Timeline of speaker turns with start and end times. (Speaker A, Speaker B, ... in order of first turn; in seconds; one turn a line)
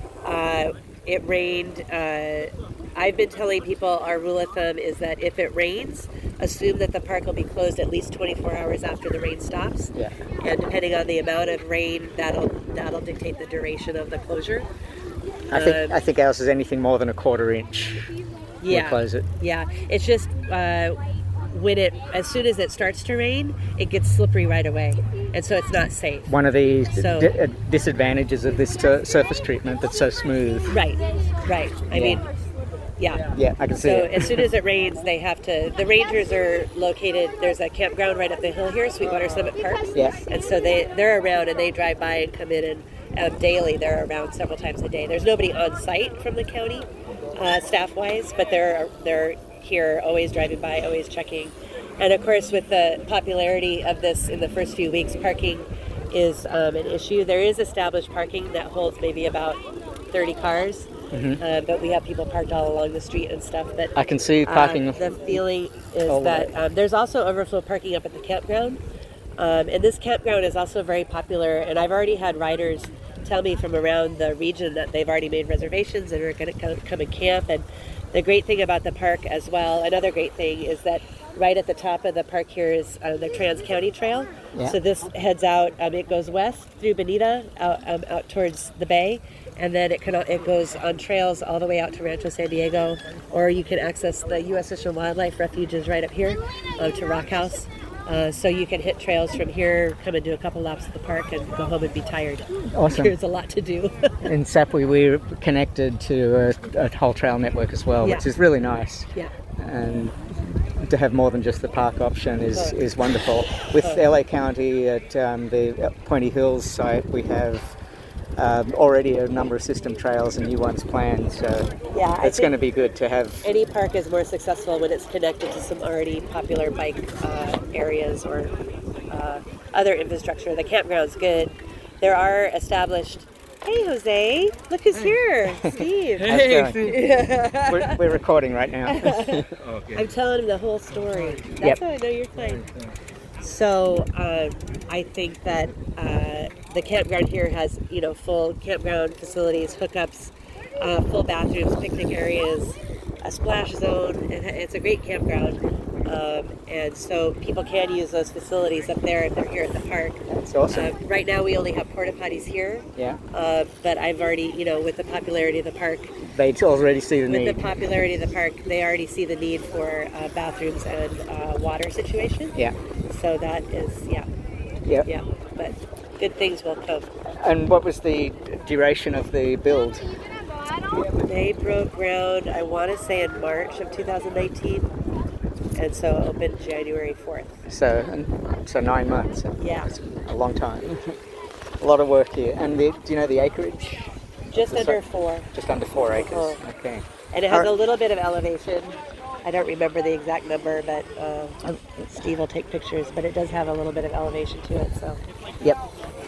Speaker A: 0.2-14.7
Speaker B: 15.5-18.1
Speaker A: 15.5-15.9
Speaker A: 18.6-21.0
Speaker B: 18.7-19.2
Speaker A: 21.5-26.3
Speaker B: 26.3-30.7
Speaker A: 26.9-27.3
Speaker A: 30.7-32.3
Speaker B: 31.9-32.2
Speaker A: 33.0-59.6
Speaker B: 33.3-34.5
Speaker A: 60.1-68.8
Speaker B: 61.1-61.4
Speaker B: 64.0-65.4
Speaker B: 66.1-66.5
Speaker A: 69.4-104.2
Speaker B: 102.7-103.1
Speaker B: 104.2-117.7
Speaker A: 108.0-108.3
Speaker B: 118.4-121.7
Speaker A: 121.9-122.5
Speaker B: 122.2-123.4
Speaker A: 123.4-128.5
Speaker A: 129.1-138.0
Speaker B: 135.7-137.0
Speaker B: 137.7-139.5
Speaker A: 138.8-142.7
Speaker A: 143.4-166.2
Speaker B: 160.3-160.9
Speaker B: 166.2-167.7
Speaker A: 167.3-172.6
Speaker A: 173.1-174.3
Speaker A: 175.0-177.1
Speaker B: 177.4-180.1
Speaker A: 181.1-184.8
Speaker A: 185.8-187.6
Speaker B: 187.7-191.0
Speaker A: 189.6-189.9
Speaker B: 191.8-195.0
Speaker A: 194.5-195.5
Speaker B: 195.5-197.7
Speaker A: 196.3-196.6
Speaker A: 197.3-205.2